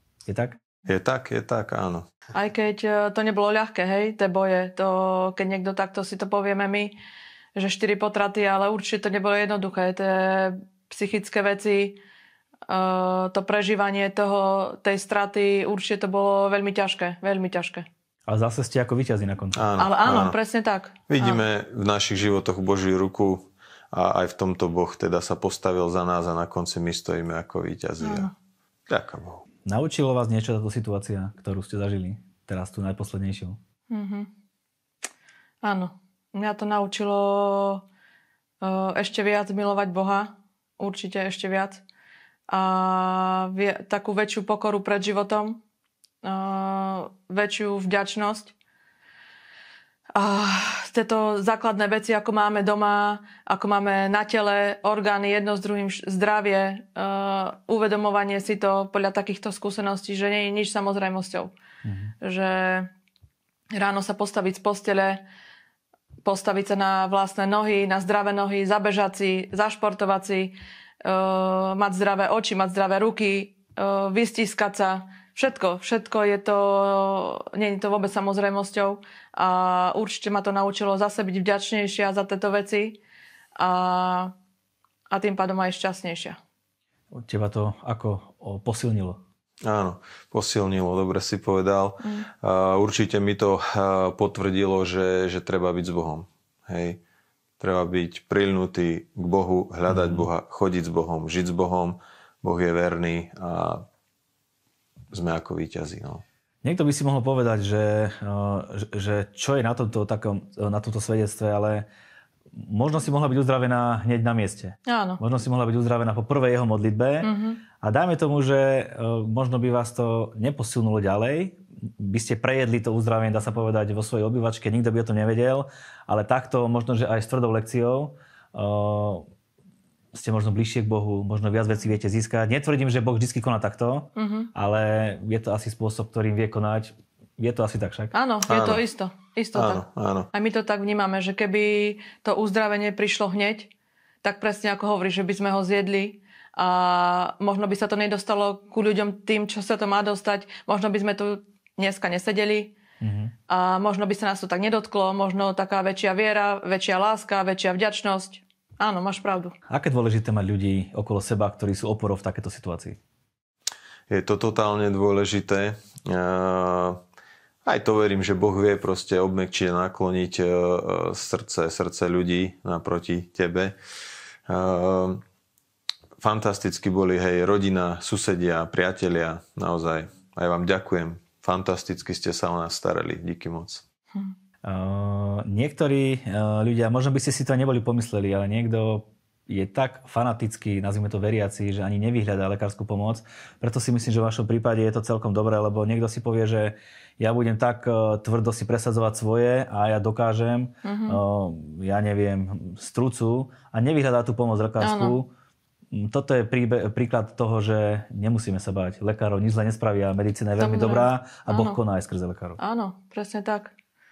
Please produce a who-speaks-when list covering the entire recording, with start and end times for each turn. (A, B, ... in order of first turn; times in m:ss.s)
0:00.2-0:00.6 A
0:00.9-0:02.1 B
0:02.3-0:06.9 C
0:07.6-0:12.0 C
0:12.7-0:17.9 C
0:18.3-0:19.6 A
0:19.6-0:20.4 B
0:19.8-0:21.4 C
0:21.1-0:28.3 B
0:28.0-0:28.3 C
0:28.9-0:29.4 B
0:29.6-0:33.6 A
0:33.9-0:34.3 C
0:35.6-0:37.8 C
0:38.6-0:41.8 C
0:42.5-0:45.6 C
0:46.2-0:48.5 C
0:50.2-1:01.5 C
1:01.8-1:02.1 A
1:02.2-1:02.9 C
1:03.7-1:05.2 C
1:06.2-1:23.0 C
1:23.6-1:24.3 C
1:25.1-1:26.4 C
1:27.1-1:29.2 A
1:29.6-1:37.0 B
1:32.0-1:32.3 C
1:37.6-1:43.8 B
1:39.9-1:40.3 A
1:45.1-1:46.2 B
1:46.6-1:51.9 A
1:52.5-2:09.3 A
1:54.9-1:55.2 C
1:57.2-1:57.6 C
2:10.1-2:18.1 A
2:14.2-2:14.5 C
2:18.1-2:23.7 C
2:18.5-2:18.8 B
2:19.6-2:20.3 B
2:24.2-2:32.7 C
2:33.0-2:33.3 A
2:33.5-2:39.6 C
2:39.7-2:43.0 A
2:44.1-2:47.0 B
2:47.6-2:53.8 B
2:54.5-2:55.2 B
2:56.2-3:03.8 B
3:04.7-3:25.3 A
3:20.8-3:21.2 C
3:24.8-3:25.2 C
3:25.9-3:32.6 A
3:30.6-3:31.8 C
3:32.6-3:33.7 C